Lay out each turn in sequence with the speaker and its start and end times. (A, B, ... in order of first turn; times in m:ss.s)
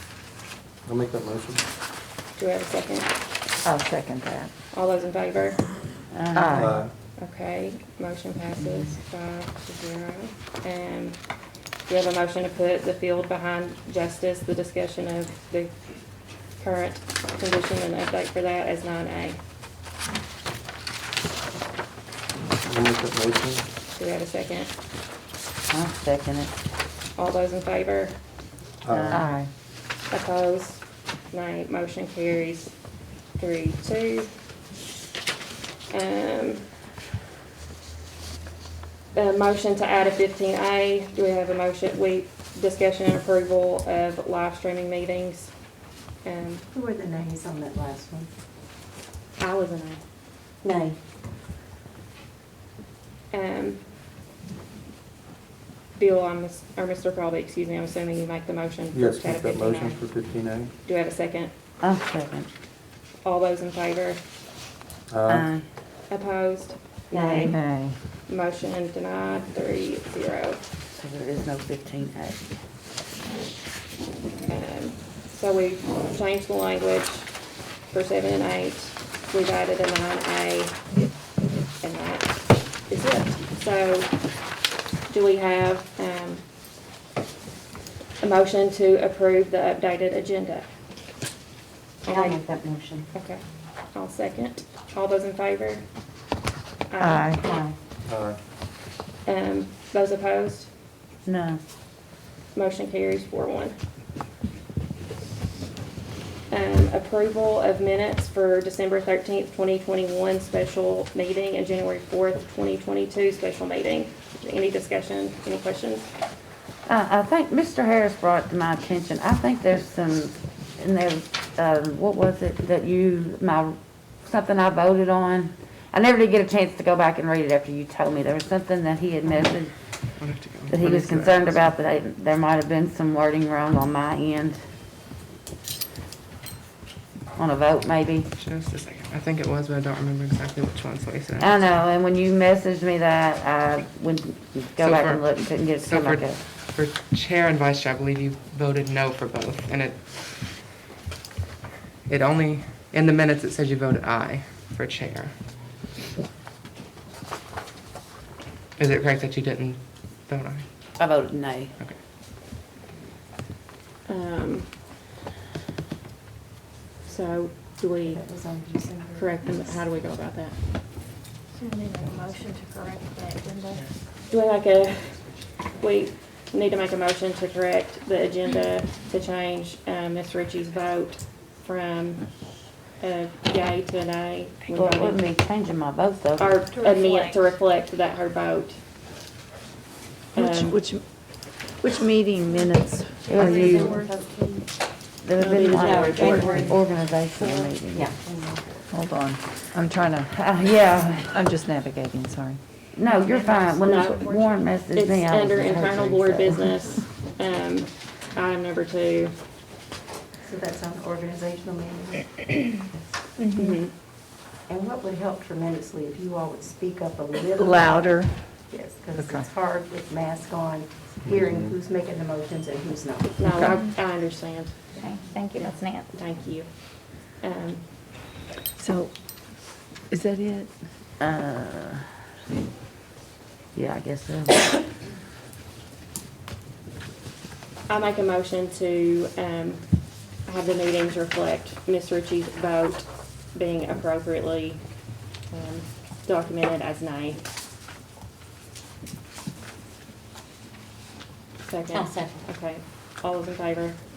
0:00.9-0:01.6 A
0:02.4-0:03.1 B
0:03.6-0:04.5 C
0:04.7-0:05.8 B
0:06.1-0:06.8 D
0:06.3-0:06.8 C
0:06.6-0:06.9 A
0:07.2-0:19.4 B
0:22.6-0:23.6 A
0:24.0-0:24.7 B
0:25.7-0:26.5 D
0:27.2-0:28.2 B
0:28.8-0:29.2 A
0:28.9-0:29.3 D
0:29.1-0:29.5 C
0:30.1-0:32.8 B
0:33.3-0:34.4 B
0:35.9-0:36.7 B
0:39.1-0:45.6 B
0:46.2-0:46.7 B
0:46.7-0:48.3 E
0:49.4-0:50.0 B
0:50.6-0:51.0 E
0:53.3-0:53.8 B
0:56.0-1:00.0 B
0:58.9-1:00.7 A
1:00.8-1:01.5 B
1:01.8-1:02.5 D
1:03.2-1:04.2 B
1:05.1-1:05.5 A
1:05.3-1:05.6 D
1:06.1-1:07.7 B
1:07.2-1:08.0 C
1:08.3-1:10.6 B
1:10.9-1:12.5 D
1:14.5-1:17.3 B
1:17.9-1:20.9 B
1:21.8-1:24.2 B
1:25.1-1:26.4 B
1:28.2-1:30.7 B
1:32.0-1:32.4 B
1:32.1-1:33.0 D
1:33.1-1:35.8 B
1:36.9-1:37.4 B
1:37.0-1:37.7 C
1:38.1-1:38.4 A
1:39.2-1:40.7 B
1:41.3-1:41.6 D
1:42.5-1:43.8 B
1:46.5-1:56.1 B
1:56.9-2:09.8 D
2:10.2-2:11.6 F
2:10.7-2:14.6 D
2:17.4-2:18.3 D
2:18.4-2:21.7 F
2:21.4-2:26.4 D
2:24.8-2:30.0 F
2:32.1-2:35.3 F
2:38.8-2:40.7 F
2:41.0-2:41.7 D
2:44.1-2:44.8 B
2:47.0-2:48.4 B
2:48.0-2:49.5 E
2:49.2-2:50.6 B
2:51.6-2:53.9 G
2:54.2-3:05.3 B
3:04.7-3:06.6 D
3:06.4-3:08.8 B
3:06.7-3:07.6 G
3:10.3-3:10.8 B
3:10.4-3:13.5 C
3:13.2-3:14.6 G
3:13.3-3:14.0 D
3:13.4-3:14.6 E
3:15.2-3:18.1 D
3:15.4-3:16.7 B
3:15.6-3:16.4 G
3:15.6-3:16.8 E
3:16.1-3:16.6 C
3:17.4-3:18.9 E
3:18.9-3:22.6 C
3:20.3-3:21.4 D
3:22.9-3:26.8 D
3:23.0-3:24.5 G
3:23.8-3:29.4 B
3:30.4-3:32.6 E
3:33.4-3:33.8 G
3:33.5-3:33.9 B
3:34.7-3:43.6 E
3:37.5-3:39.5 C
3:41.2-3:41.8 A
3:43.4-3:44.8 B
3:45.0-3:46.1 G
3:45.6-3:47.9 B
3:48.8-3:49.4 C
3:50.1-3:50.7 C
3:51.2-3:52.1 D
3:53.7-3:54.7 D
3:57.9-4:07.4 B
4:11.6-4:14.0 B